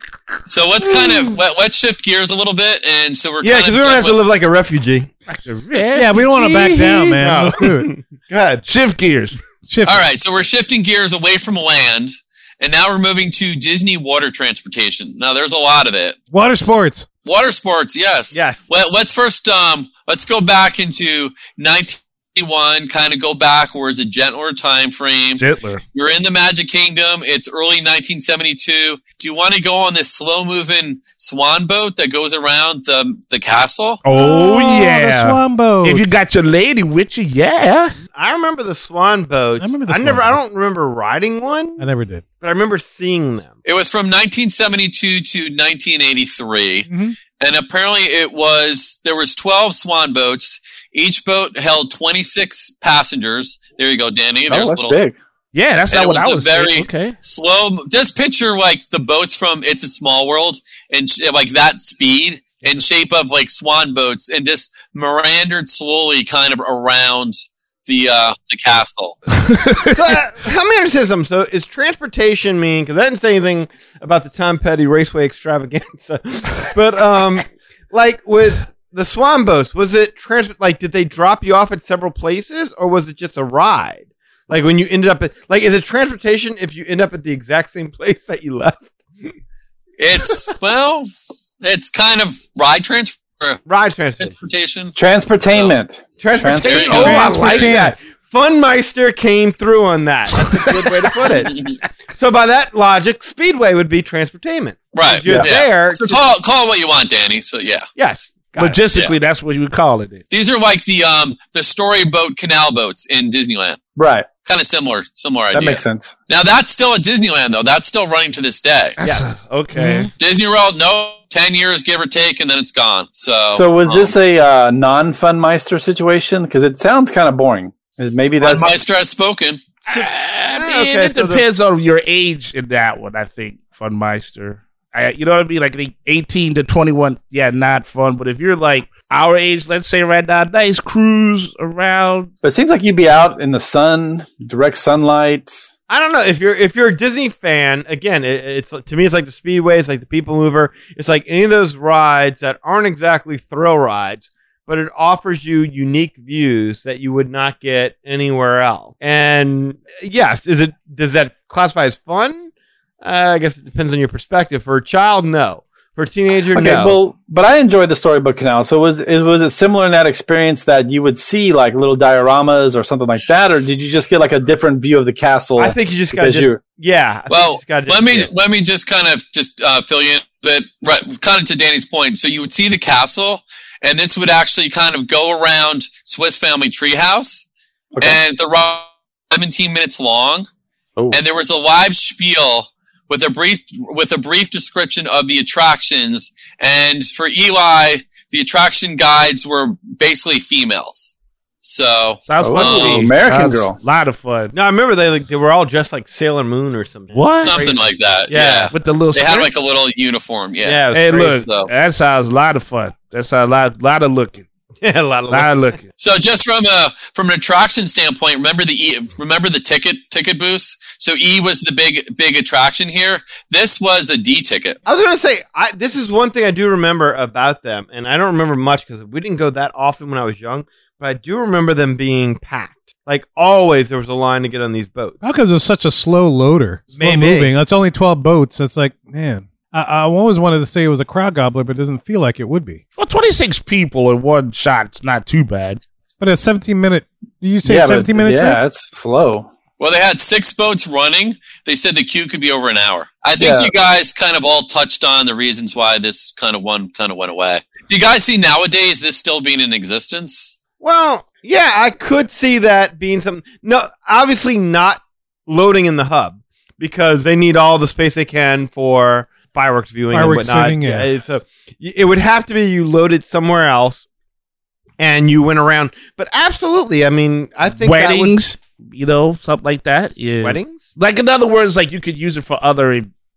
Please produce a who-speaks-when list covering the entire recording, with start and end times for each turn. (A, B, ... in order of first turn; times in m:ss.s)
0:00.5-0:04.2 A
0:00.9-0:01.4 B
0:03.4-0:05.1 B
0:05.3-0:07.2 C
0:05.9-0:07.9 D
0:07.2-0:08.6 B
0:08.7-0:09.4 C
0:09.7-0:10.0 D
0:09.9-0:16.2 A
0:16.3-0:17.1 D
0:17.3-0:25.4 A
0:18.3-0:18.6 B
0:25.4-0:25.8 C
0:25.9-0:34.0 A
0:34.0-0:38.0 C
0:34.1-0:36.2 D
0:38.1-0:41.9 B
0:39.6-0:40.4 D
0:41.8-0:42.2 D
0:42.4-0:43.5 B
0:43.6-0:55.0 A
0:46.9-0:47.2 D
0:54.5-0:55.2 E
0:55.5-0:57.2 C
0:55.9-1:09.2 A
1:09.4-1:09.9 C
1:09.9-1:29.0 B
1:30.0-1:31.1 A
1:31.6-1:33.6 A
1:33.7-1:34.3 B
1:34.2-1:35.0 A
1:35.0-1:37.6 E
1:35.5-1:35.8 A
1:36.2-1:41.5 B
1:36.6-1:37.3 A
1:36.9-1:38.0 D
1:42.1-1:46.2 B
1:44.9-1:47.9 A
1:48.0-1:48.8 B
1:48.6-1:50.2 C
1:50.3-1:53.8 A
1:54.0-1:54.3 E
1:54.4-1:59.0 A
1:55.5-1:56.1 E
1:59.0-2:00.1 C
1:59.0-1:59.3 B
2:00.2-2:04.1 A
2:03.5-2:08.8 E
2:08.4-2:09.6 A
2:09.9-2:22.3 C
2:09.9-2:11.4 B
2:22.4-2:25.6 E
2:25.9-2:42.5 B
2:43.0-2:47.0 B
2:46.5-2:56.6 E
2:46.6-2:46.9 C
2:55.6-2:58.3 B
2:57.3-3:07.5 A
3:08.0-3:10.5 A
3:11.1-3:23.1 A
3:22.2-3:24.5 C
3:22.4-3:23.8 E
3:24.5-3:27.8 B
3:27.2-3:27.7 C
3:27.4-3:31.7 A
3:28.3-3:28.7 B
3:28.7-3:29.5 C
3:30.6-3:31.4 B
3:30.9-3:34.5 C
3:34.8-3:35.6 B
3:35.3-3:35.9 C
3:36.0-3:44.8 A
3:44.9-3:55.2 B
3:55.2-4:02.8 D
3:56.9-3:57.5 B
4:03.0-4:05.8 C
4:06.2-4:08.6 D
4:07.6-4:09.5 E
4:09.8-4:20.6 A
4:13.4-4:13.7 E
4:20.8-4:34.0 B
4:30.1-4:31.1 D
4:35.0-4:38.4 B
4:37.8-4:43.1 C
4:40.4-4:40.8 B